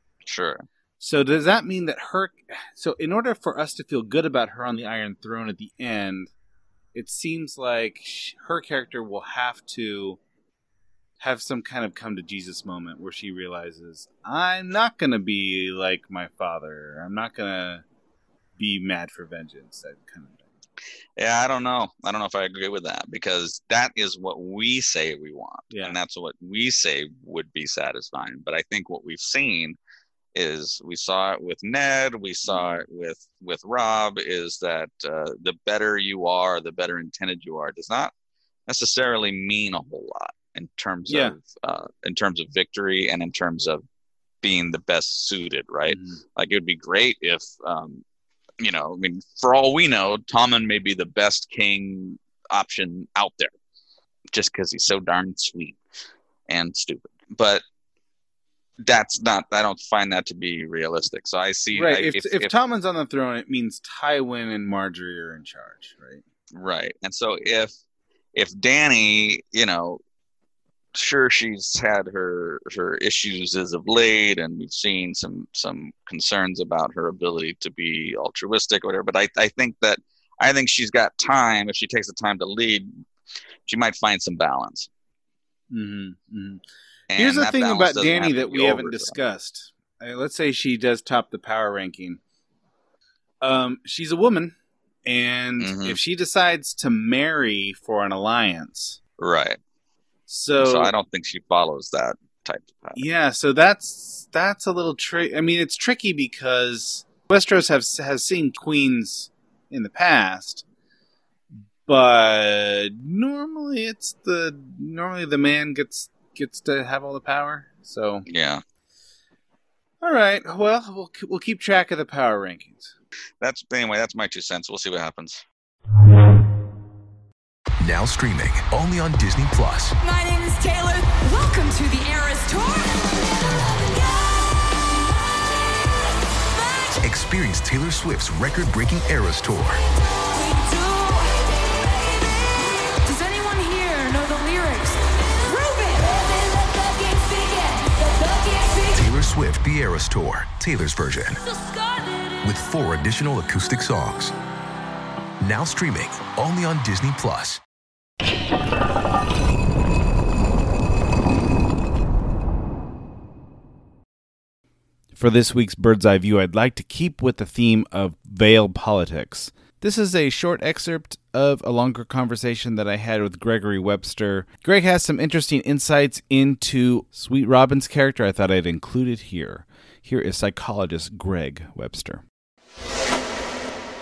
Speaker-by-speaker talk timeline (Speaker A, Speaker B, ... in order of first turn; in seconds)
Speaker A: 0.3-0.7, 21.2-29.8, 30.4-38.1, 38.7-43.8, 44.4-48.0, 48.6-53.5, 54.3-55.8, 56.5-57.6, 58.8-62.5, 66.5-67.7, 68.3-70.0, 71.0-83.0, 83.7-84.9, 87.1-89.1, 95.6-96.0, 99.2-99.6, 100.6-103.0, 118.3-118.6, 123.4-125.4
Speaker B: 1.0-6.3, 6.9-10.2, 11.2-17.8, 18.6-20.5, 25.7-26.0, 41.1-41.4, 45.9-46.2, 61.7-66.2, 85.7-86.6, 87.2-92.2, 93.4-99.0, 100.3-100.9, 103.0-110.7, 111.8-118.3, 120.0-122.9, 165.2-182.2
Speaker C: 127.8-130.0, 137.0-139.8, 148.9-151.4, 152.4-154.3, 155.4-157.6
Speaker D: 130.0-133.1, 133.9-134.5, 136.5-137.0, 140.3-149.1, 151.4-152.4